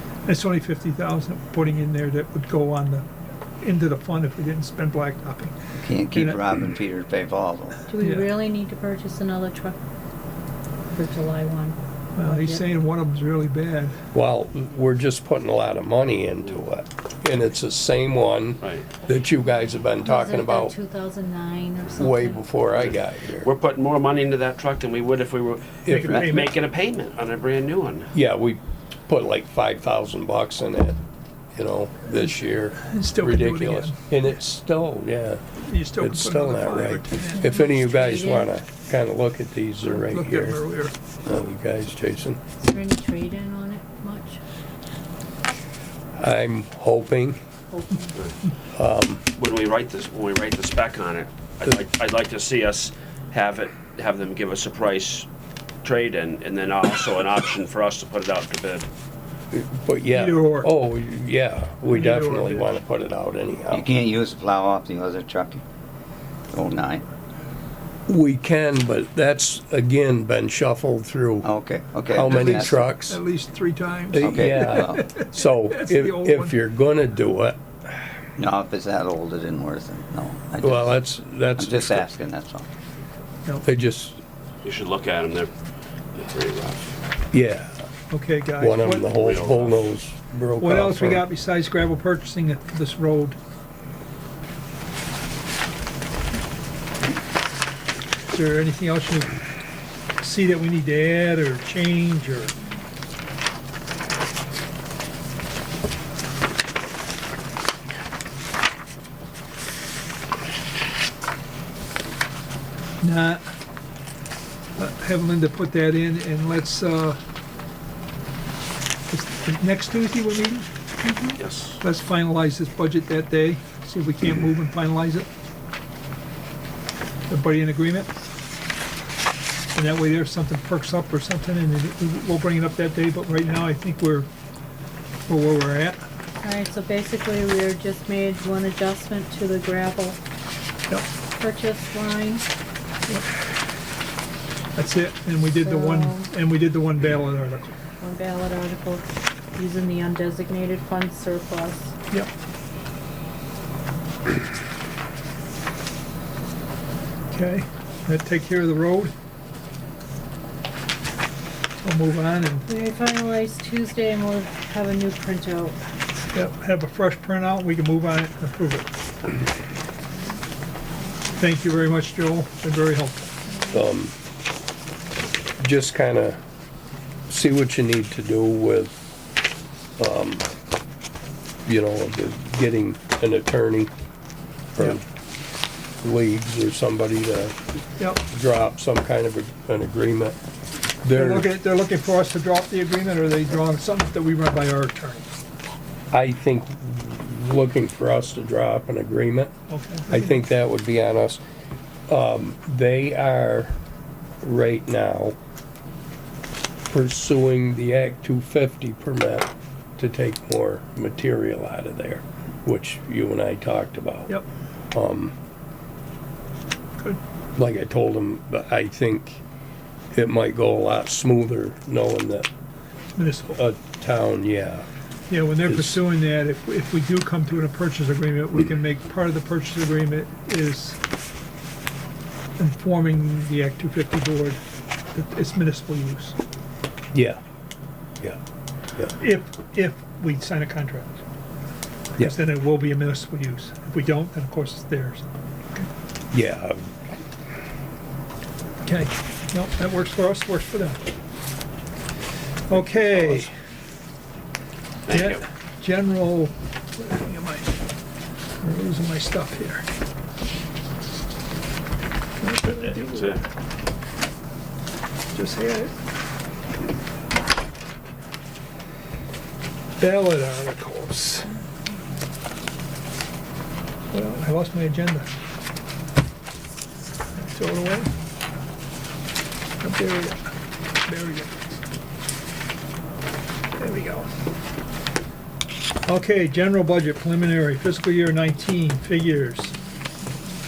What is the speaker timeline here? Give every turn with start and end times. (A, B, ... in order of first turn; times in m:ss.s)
0:00.3-0:03.1 A
0:03.6-0:05.6 A
0:05.8-0:07.9 B
0:06.1-0:06.4 A
0:07.9-0:09.8 C
0:08.0-0:08.3 A
0:10.9-0:12.7 C
0:12.2-0:14.0 A
0:14.1-0:20.8 D
0:18.6-0:18.9 E
0:20.0-0:22.4 C
0:22.0-0:23.5 D
0:22.8-0:28.1 E
0:25.9-0:26.3 D
0:25.9-0:26.6 A
0:28.1-0:31.0 D
0:31.5-0:35.4 D
0:32.1-0:34.0 A
0:35.6-0:37.5 A
0:35.9-0:40.6 D
0:37.4-0:38.6 C
0:39.9-0:41.0 A
0:41.3-0:42.4 D
0:42.6-0:44.4 C
0:46.2-0:47.4 D
0:47.7-0:48.2 C
0:48.8-0:49.2 D
0:49.4-0:55.3 E
0:55.8-0:58.9 E
0:59.5-1:03.9 D
1:00.1-1:00.7 A
1:01.9-1:02.7 A
1:03.7-1:05.6 B
1:06.5-1:07.1 B
1:08.1-1:11.5 D
1:11.4-1:13.0 B
1:12.1-1:13.2 D
1:12.2-1:16.5 A
1:14.1-1:18.1 D
1:14.2-1:15.1 B
1:18.4-1:21.0 B
1:20.6-1:22.1 D
1:21.6-1:22.7 B
1:23.6-1:24.2 D
1:24.6-1:25.5 E
1:26.2-1:27.0 E
1:27.3-1:27.8 D
1:28.1-1:29.1 A
1:28.6-1:31.3 D
1:29.1-1:29.9 E
1:30.6-1:33.4 A
1:38.3-1:39.4 A
1:40.2-1:42.5 A
1:53.0-1:53.4 A
1:54.8-1:57.2 A
1:59.1-2:00.7 A
2:01.0-2:01.4 C
2:01.4-2:01.8 E
2:01.8-2:05.3 A
2:07.3-2:08.1 A
2:09.8-2:14.3 A
2:15.3-2:16.0 A
2:16.4-2:20.2 C
2:21.4-2:22.4 C
2:24.8-2:27.8 A
2:25.6-2:26.3 C
2:28.0-2:32.0 C
2:37.3-2:39.1 A
2:41.8-2:42.6 A
2:42.7-2:45.8 C
2:46.3-2:48.9 A
2:51.4-2:53.3 A
2:53.7-2:54.1 D
2:55.6-2:56.4 D
2:57.3-2:59.0 D
3:00.0-3:00.5 D
3:01.6-3:03.9 D
3:04.8-3:05.0 D
3:06.0-3:07.6 D
3:08.2-3:10.4 D
3:11.0-3:11.5 D
3:11.1-3:15.3 A
3:16.1-3:19.5 D
3:19.7-3:20.4 A
3:20.1-3:21.4 D
3:22.1-3:23.8 D
3:24.4-3:25.4 D
3:26.9-3:34.3 D
3:34.9-3:35.4 D
3:37.6-3:39.4 D
3:40.1-3:42.5 D
3:43.2-3:43.6 A
3:43.6-3:44.9 D
3:45.3-3:51.0 A
3:45.7-3:46.0 D
3:52.6-3:54.6 A
3:55.1-3:56.4 A
3:57.1-3:57.4 D
3:59.2-4:01.2 A
4:02.2-4:05.9 A
4:06.3-4:06.9 D
4:08.8-4:11.0 A
4:12.7-4:13.5 A
4:13.0-4:13.5 D
4:15.1-4:15.4 E
4:15.1-4:17.7 A
4:18.6-4:19.9 A
4:22.4-4:23.4 A
4:22.7-4:23.4 E
4:25.3-4:25.9 A
4:30.0-4:31.5 A
4:34.1-4:35.3 A
4:37.4-4:38.1 A
4:39.8-4:40.4 A
4:41.0-4:41.6 A
4:43.8-4:44.3 A
4:46.1-4:49.8 A